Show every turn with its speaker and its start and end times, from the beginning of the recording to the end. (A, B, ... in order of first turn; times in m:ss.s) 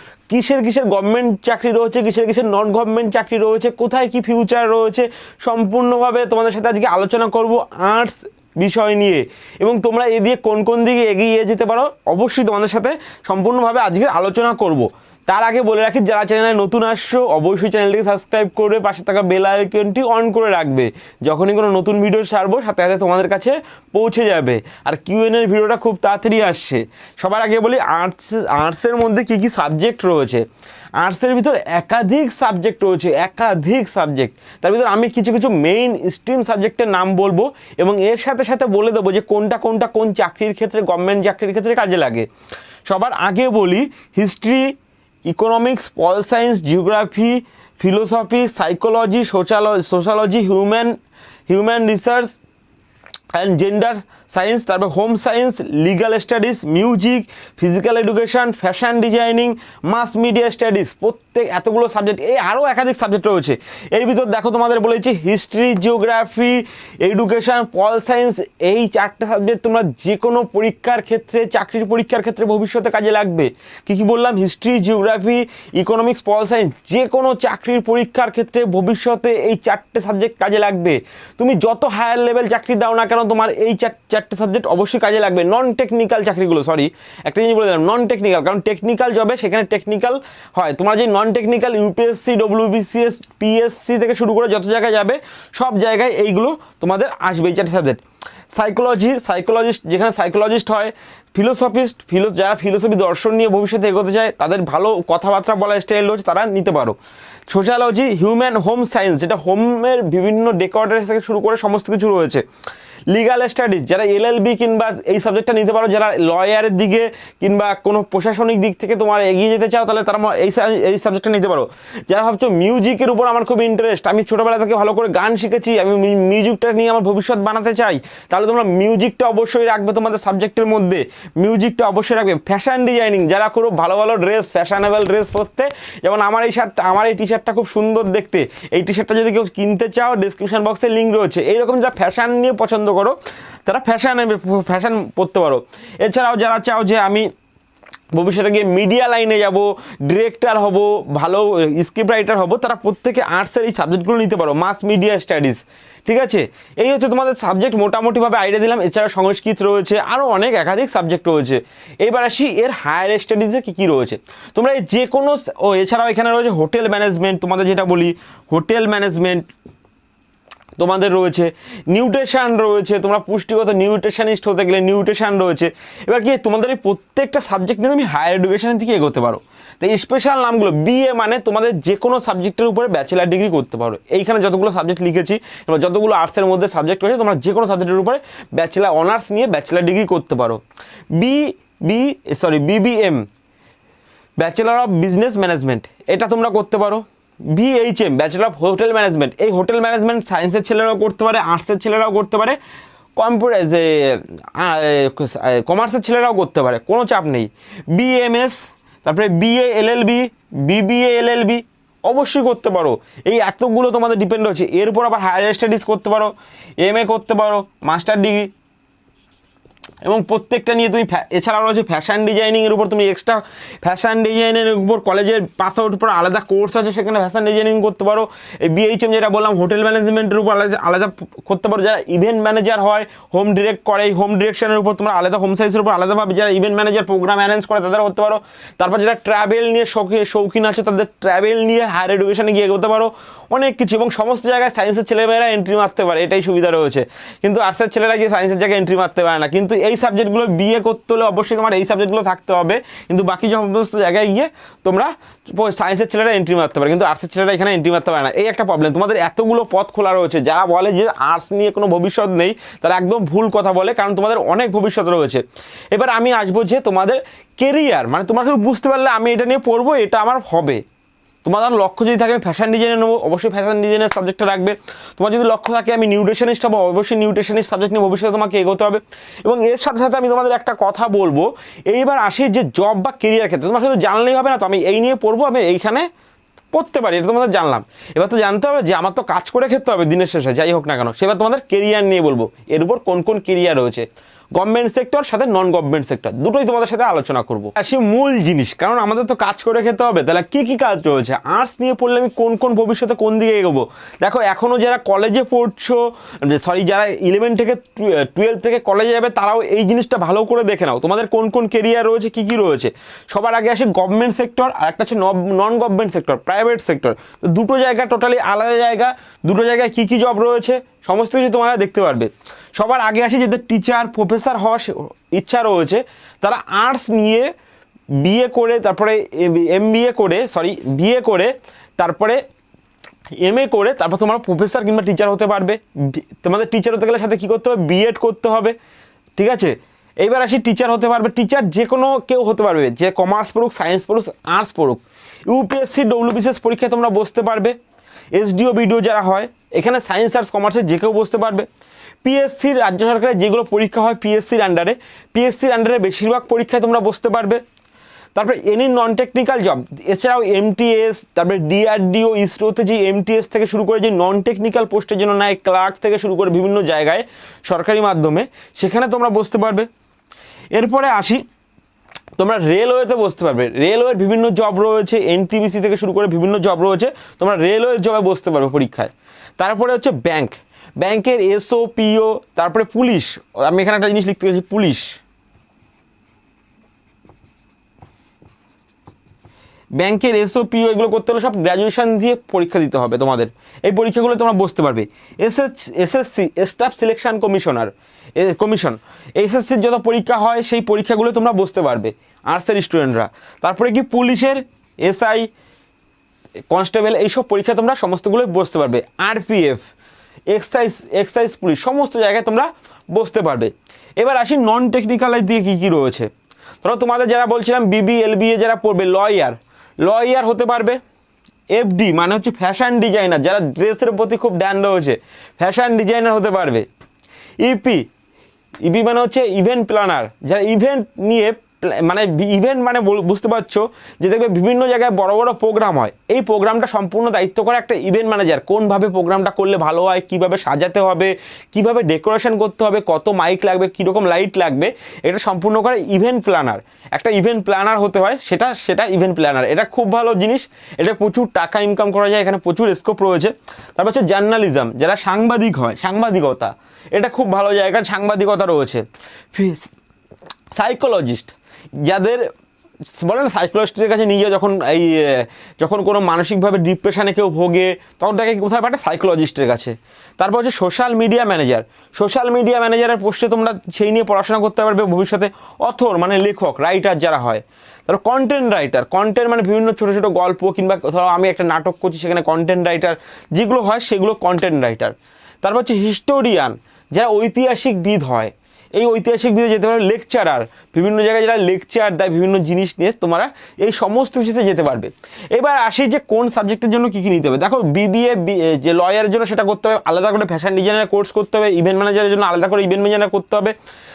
0:00.3-0:30.4 A
0:31.0-0:42.3 A
0:42.9-0:44.7 A
0:45.3-0:51.0 A
0:51.5-0:52.4 A
0:53.3-1:38.0 A
1:38.5-1:47.0 A
1:47.5-1:52.4 A
1:53.1-2:27.3 A
2:28.1-2:49.5 A
2:50.8-3:10.6 A
3:11.2-3:13.2 A
3:14.4-3:22.6 A
3:23.2-3:38.5 A
3:40.0-4:30.8 A
4:31.4-4:46.1 A
4:46.7-5:27.5 A
5:28.2-5:32.4 A
5:33.4-5:38.8 A
5:39.4-5:47.8 A
5:48.3-5:51.7 A
5:52.2-5:57.6 A
5:58.4-6:09.9 A
6:10.7-6:11.4 A
6:12.4-6:25.2 A
6:30.0-6:45.5 A
6:46.7-6:49.8 A
6:50.5-6:56.3 A
6:56.8-7:01.0 A
7:01.7-7:06.9 A
7:07.6-7:08.1 A
7:08.8-7:39.9 A
7:40.8-7:42.5 A
7:43.2-8:23.8 A